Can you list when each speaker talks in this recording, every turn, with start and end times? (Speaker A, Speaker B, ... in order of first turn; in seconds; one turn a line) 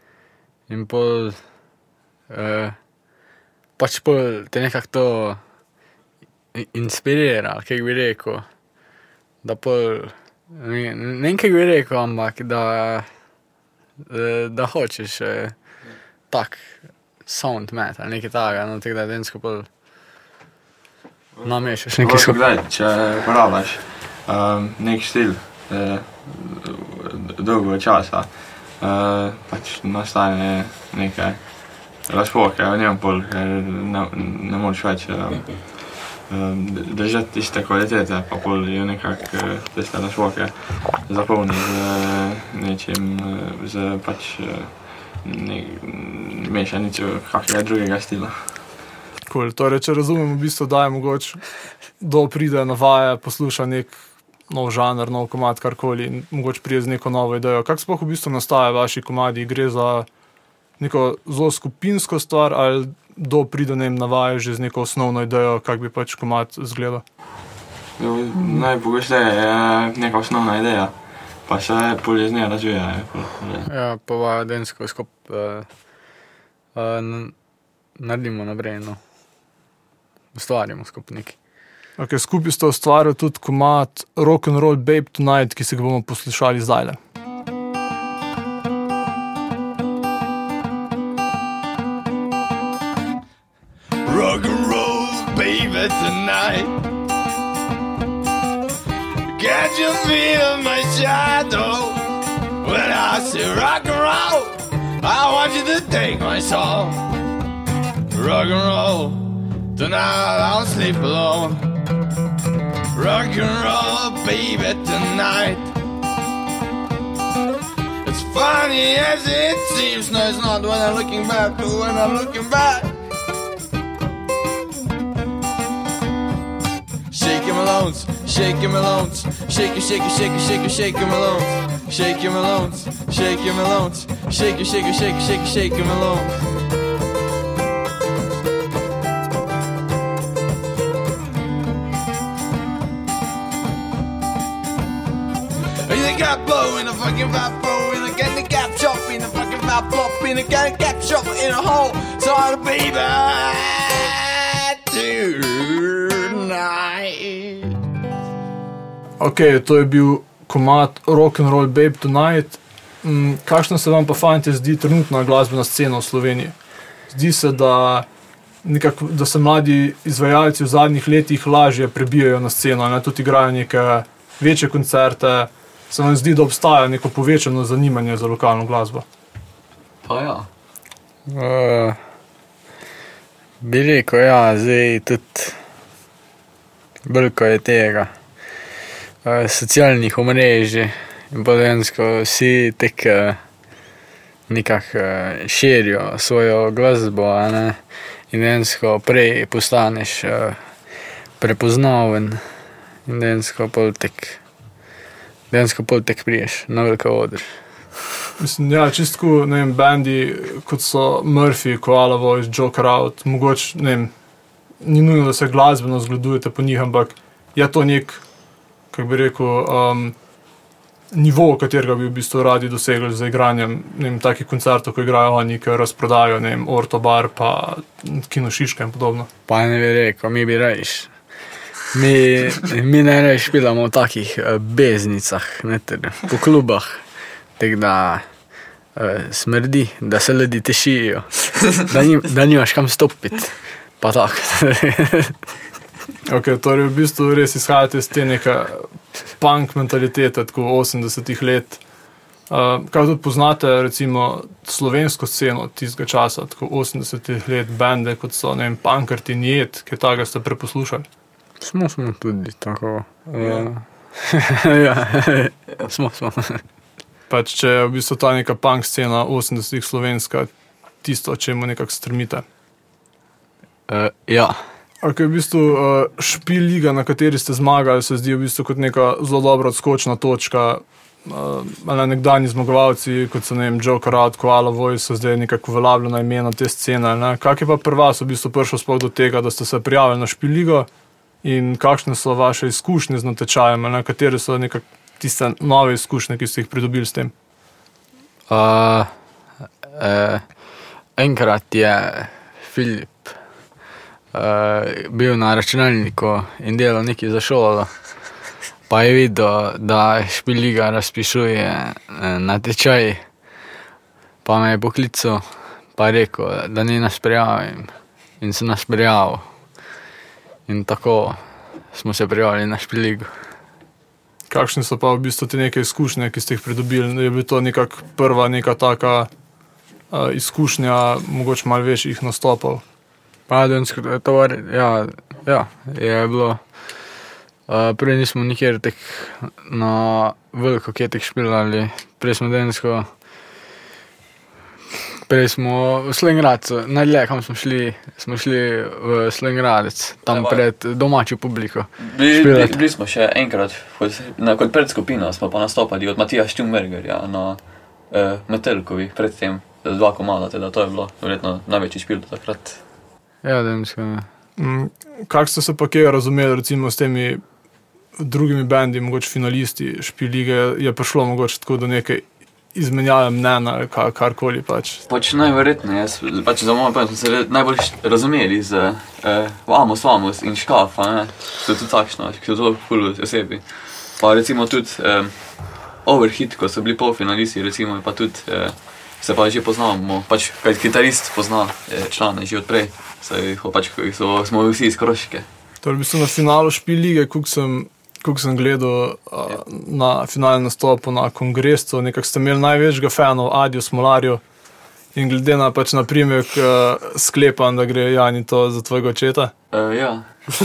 Speaker A: 0.7-1.4
Speaker A: 2.3-2.8
Speaker A: 3.8-5.4
Speaker A: 6.5-8.4
Speaker A: 9.4-13.1
Speaker A: 14.0-15.6
Speaker A: 16.3-19.7
Speaker B: 21.3-48.6
Speaker A: 21.4-22.4
Speaker C: 49.3-51.4
Speaker C: 52.0-54.0
Speaker C: 54.5-60.1
Speaker C: 60.8-67.0
Speaker B: 68.0-73.7
Speaker A: 73.7-76.1
Speaker A: 76.7-77.3
Speaker A: 78.0-79.0
Speaker A: 80.3-81.4
Speaker C: 82.0-87.0
Speaker D: 94.0-96.8
Speaker D: 99.3-102.1
Speaker D: 102.6-107.1
Speaker D: 108.1-111.7
Speaker D: 112.9-115.7
Speaker D: 118.0-122.9
Speaker D: 127.1-136.5
Speaker D: 145.8-157.7
Speaker C: 159.2-166.5
Speaker C: 167.1-168.1
Speaker C: 168.6-179.0
Speaker E: 180.0-180.5
Speaker A: 181.3-182.0
Speaker A: 183.6-185.6
Speaker A: 187.0-188.1
Speaker A: 189.2-193.4
Speaker A: 194.5-200.7
Speaker A: 201.4-202.4
Speaker A: 203.1-204.4
Speaker A: 205.5-207.6
Speaker C: 208.4-214.1
Speaker C: 214.8-218.2
Speaker C: 218.9-220.1
Speaker C: 221.1-229.3
Speaker A: 229.5-231.2
Speaker A: 231.9-238.3
Speaker A: 238.9-245.3
Speaker C: 246.3-251.8
Speaker C: 252.5-261.1
Speaker A: 261.6-266.6
Speaker C: 267.3-270.5
Speaker C: 271.0-272.4
Speaker A: 273.9-274.6
Speaker C: 275.0-290.9
Speaker C: 291.4-297.3
Speaker A: 298.5-299.1
Speaker A: 299.9-300.4
Speaker A: 301.1-303.4
Speaker A: 304.3-307.9
Speaker A: 308.9-313.2
Speaker A: 314.4-319.5
Speaker A: 320.7-323.3
Speaker C: 324.5-329.3
Speaker C: 330.1-332.8
Speaker A: 333.5-336.9
Speaker A: 337.7-343.1
Speaker A: 345.3-352.8
Speaker E: 350.3-350.6
Speaker E: 352.0-362.8
Speaker A: 363.4-364.3
Speaker C: 364.6-367.4
Speaker C: 368.2-375.0
Speaker E: 375.1-395.5
Speaker C: 395.8-404.4
Speaker C: 405.1-409.5
Speaker E: 409.7-410.2